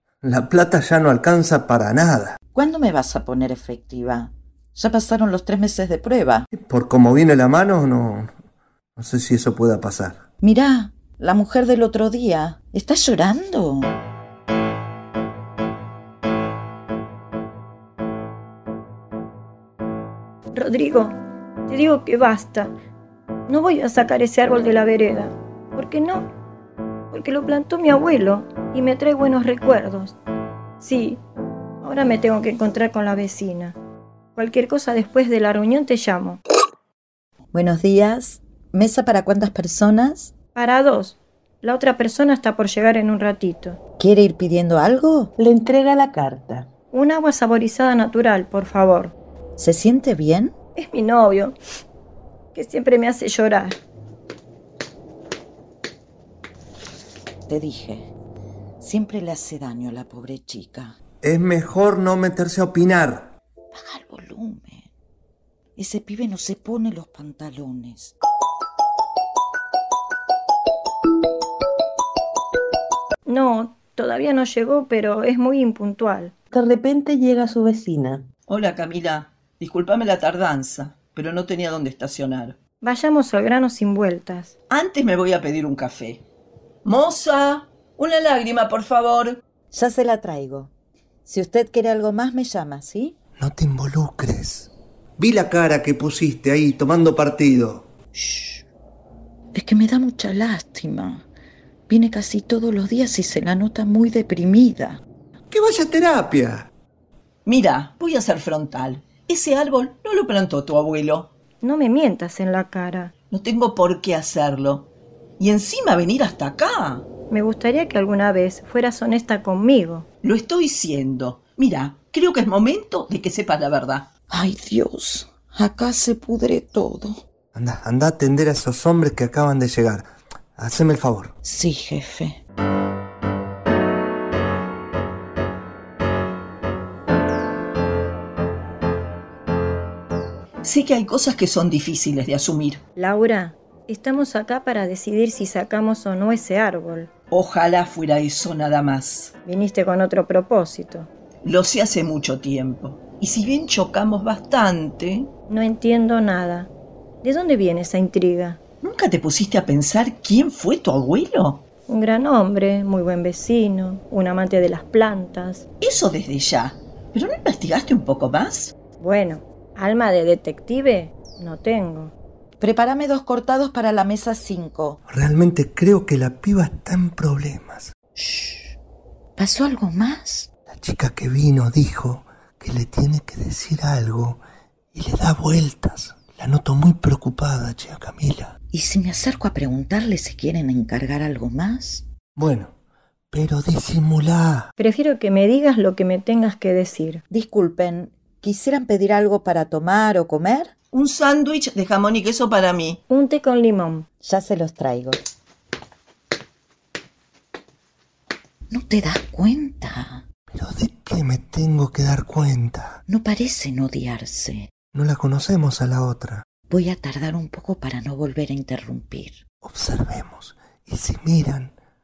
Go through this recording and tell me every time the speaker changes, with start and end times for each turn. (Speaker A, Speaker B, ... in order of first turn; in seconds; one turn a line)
Speaker A: 0.2-2.4
Speaker B: 2.5-6.5
Speaker A: 6.5-8.3
Speaker A: 8.9-10.2
Speaker B: 10.4-13.9
Speaker C: 20.5-22.7
Speaker C: 23.5-26.3
Speaker C: 27.1-30.1
Speaker C: 30.8-31.2
Speaker C: 31.8-33.8
Speaker C: 34.4-36.4
Speaker B: 37.5-40.3
Speaker C: 40.5-43.8
Speaker B: 44.0-45.3
Speaker D: 45.4-46.7
Speaker C: 46.9-49.1
Speaker B: 49.6-50.5
Speaker C: 50.8-51.5
Speaker C: 52.5-53.8
Speaker B: 57.5-58.1
Speaker B: 58.8-61.0
Speaker A: 61.2-63.3
Speaker B: 63.7-64.9
Speaker B: 65.8-68.1
Speaker C: 73.3-76.3
Speaker D: 76.5-78.3
Speaker E: 78.5-82.6
Speaker C: 82.8-84.5
Speaker E: 84.7-86.2
Speaker E: 86.8-89.4
Speaker B: 89.7-90.7
Speaker B: 91.2-93.1
Speaker A: 93.4-97.9
Speaker B: 98.1-98.6
Speaker B: 99.5-101.2
Speaker B: 101.9-105.0
Speaker A: 105.5-106.7
Speaker E: 107.5-111.3
Speaker C: 111.6-113.1
Speaker E: 113.3-117.1
Speaker C: 117.3-120.0
Speaker E: 120.2-124.1
Speaker B: 124.3-127.2
Speaker A: 127.5-131.3
Speaker B: 131.4-132.4
Speaker E: 140.6-142.8
Speaker C: 142.9-147.1
Speaker E: 147.3-149.3
Speaker C: 149.4-151.1
Speaker E: 151.4-155.3
Speaker C: 155.5-156.7
Speaker C: 157.2-158.6
Speaker E: 158.8-161.6
Speaker C: 161.9-165.6
Speaker E: 165.8-168.7
Speaker C: 169.0-172.1
Speaker B: 172.6-175.0
Speaker A: 175.1-177.9
Speaker B: 178.2-178.7
Speaker B: 179.4-180.5
Speaker A: 180.7-184.4
Speaker A: 184.9-188.6
Speaker B: 188.7-192.0
Speaker A: 192.3-192.7
Speaker A: 193.3-194.7
Speaker C: 194.8-197.2
Speaker B: 197.3-200.7
Speaker E: 200.9-203.0
Speaker C: 203.1-204.1
Speaker B: 204.2-205.2
Speaker B: 208.7-210.2
Speaker A: 210.5-213.0
Speaker B: 213.1-214.7
Speaker A: 214.9-216.5
Speaker B: 216.7-219.4
Speaker A: 219.6-221.7